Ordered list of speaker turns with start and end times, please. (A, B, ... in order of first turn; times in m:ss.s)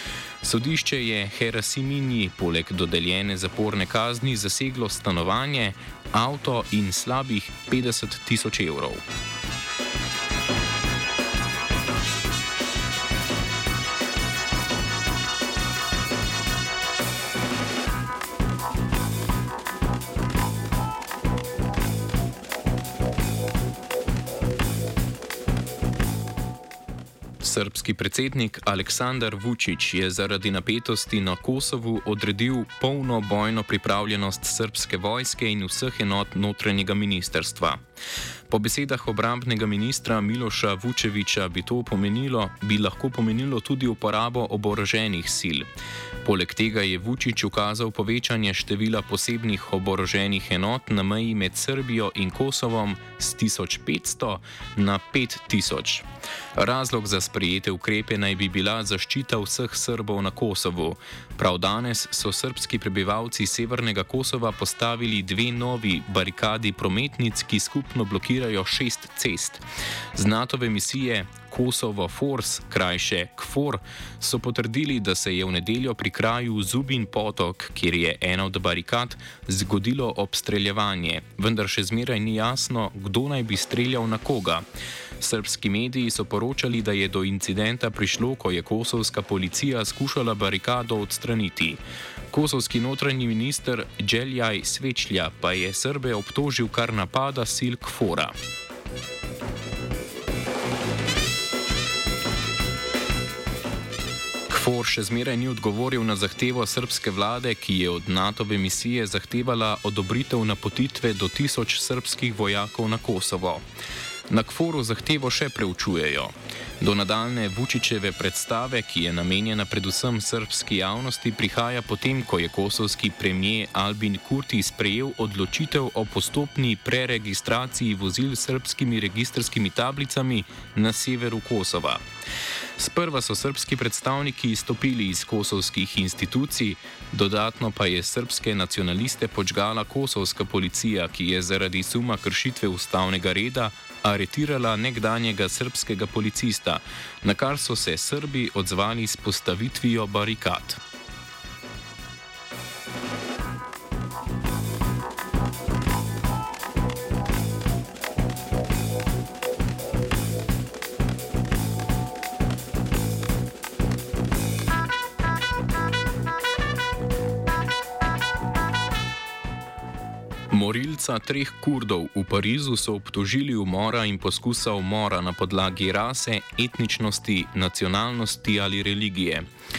0:00.4-0:09.0 A
0:27.4-0:37.8 A
0:38.5-0:45.7 A
0:46.2-1:09.6 A
1:10.1-1:24.6 A
1:25.2-1:31.8 A
1:32.3-1:38.3 A
1:44.5-1:53.6 A
1:54.3-2:12.0 A
2:12.8-2:30.8 A
2:50.5-2:59.5 A